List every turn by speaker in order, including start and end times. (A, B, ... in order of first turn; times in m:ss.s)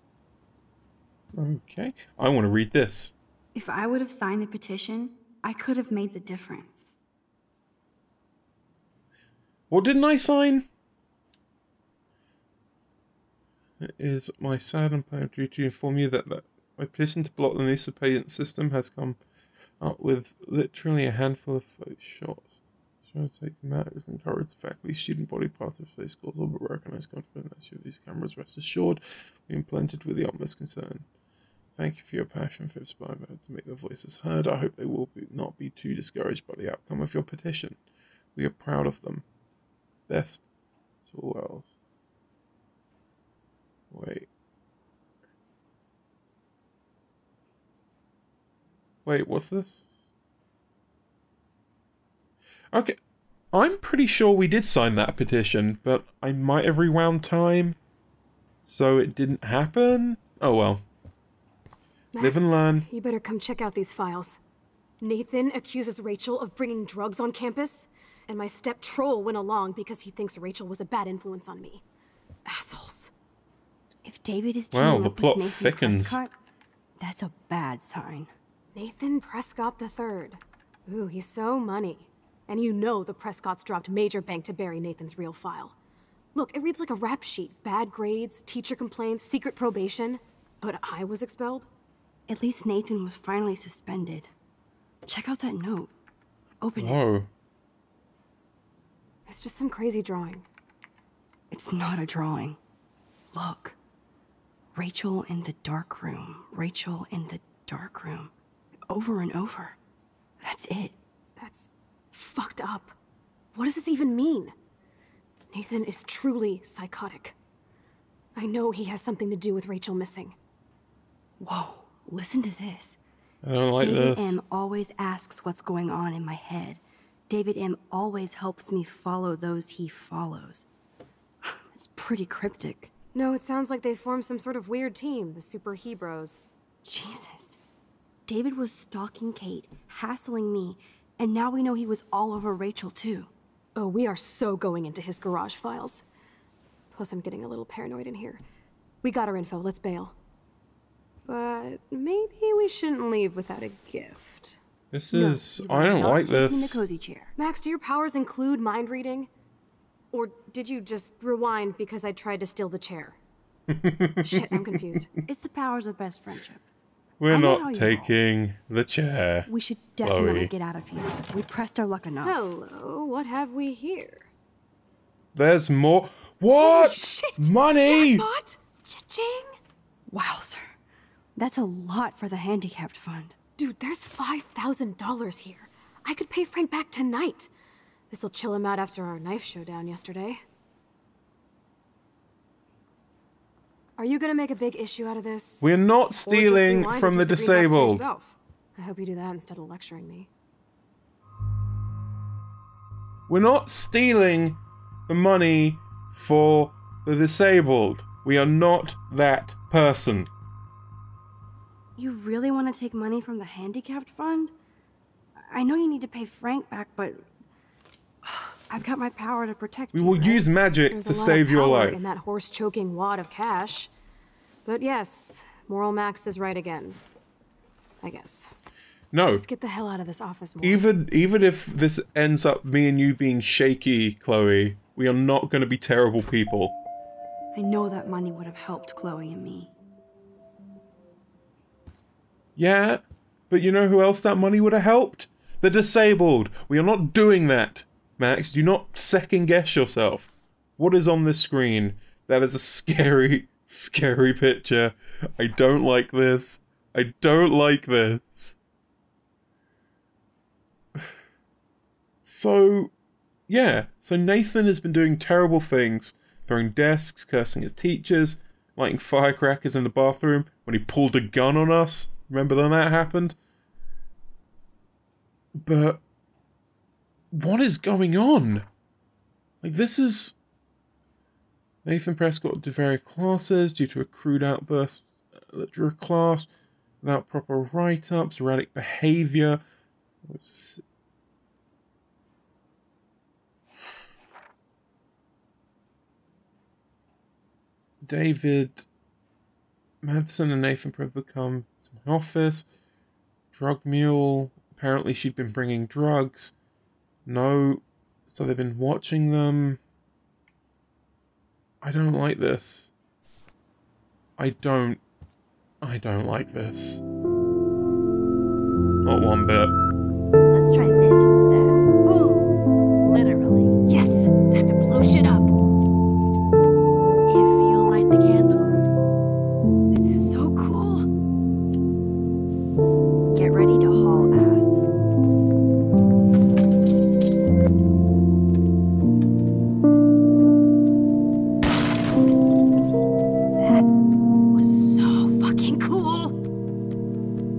0:01.3-0:03.1 A
0:03.5-0:07.0 B
0:09.7-0:10.6 A
0:13.8-0:19.2 A
0:19.8-0:31.0 A
0:31.8-0:37.8 A
0:38.4-0:39.2 A
0:40.1-0:40.4 A
0:41.0-0:41.7 A
0:43.9-0:44.3 A
0:49.0-0:50.1 A
0:52.7-0:53.0 A
0:53.5-0:57.8 A
0:58.6-1:00.8 A
1:02.1-1:04.4 C
1:02.2-1:02.9 A
1:05.0-1:11.8 C
1:12.4-1:13.1 C
1:14.0-1:16.3 B
1:14.7-1:16.2 A
1:17.0-1:18.3 B
1:18.7-1:25.7 C
1:26.3-1:31.7 C
1:32.3-1:34.3 B
1:35.0-1:35.9 B
1:36.6-1:37.0 B
1:36.8-1:37.3 A
1:39.3-1:40.4 C
1:41.5-1:42.6 B
1:43.3-1:43.8 B
1:44.7-1:48.3 B
1:48.9-1:49.8 B
1:50.4-1:51.0 B
1:51.4-1:52.9 C
1:53.5-1:54.5 C
1:55.5-1:57.3 C
1:58.3-2:00.4 C
2:01.4-2:03.0 B
2:03.4-2:04.4 A
2:03.8-2:10.7 B
2:11.4-2:12.9 B
2:13.1-2:16.4 C
2:16.8-2:17.6 B
2:18.3-2:23.3 B
2:23.8-2:26.0 C
2:26.9-2:28.4 C
2:29.0-2:30.1 C
2:31.2-2:34.6 C
2:34.9-2:36.8 A
2:35.1-2:37.3 B
2:37.4-2:39.3 C
2:40.1-2:43.2 C
2:43.7-2:45.0 A
2:44.2-2:45.1 C
2:45.2-2:46.6 B
2:47.2-2:49.5 A
2:47.3-2:48.1 B
2:49.5-2:52.4 B
2:50.0-2:50.5 A
2:52.2-2:54.3 C
2:55.3-2:58.2 A
2:56.6-2:59.5 C
3:00.1-3:00.7 B
3:01.4-3:03.3 B
3:03.6-3:07.5 C
3:08.1-3:10.4 C
3:14.0-3:15.7 C
3:15.6-3:18.0 A
3:16.2-3:20.3 C
3:23.3-3:30.3 A
3:32.0-3:34.5 B
3:35.5-3:37.2 B
3:38.2-3:40.4 B
3:39.9-3:42.0 A
3:40.9-3:43.9 C
3:44.6-3:47.0 C
3:48.0-3:48.5 C
3:49.1-3:49.4 A
3:49.3-3:50.8 C
3:50.6-3:56.7 A
3:57.5-3:59.7 B
4:02.6-4:18.6 A
4:22.2-4:22.9 A
4:23.5-4:33.4 A
4:35.6-4:36.0 A
4:37.3-4:38.6 A
4:39.6-4:40.4 A
4:41.8-4:46.5 A
4:47.0-4:49.6 A
4:50.2-4:50.8 A
4:58.0-4:58.8 A
5:00.0-5:02.7 A
5:03.5-5:06.5 A
5:07.2-5:09.8 A
5:11.8-5:12.9 A
5:14.4-5:15.0 A
5:15.8-5:17.0 A
5:19.0-5:19.7 A
5:20.5-5:22.5 B
5:23.0-5:23.8 B
5:23.8-5:25.5 C
5:27.3-5:28.8 B
5:29.9-5:31.1 C
5:33.3-5:34.8 B
5:43.6-5:43.8 B
5:44.5-5:46.3 C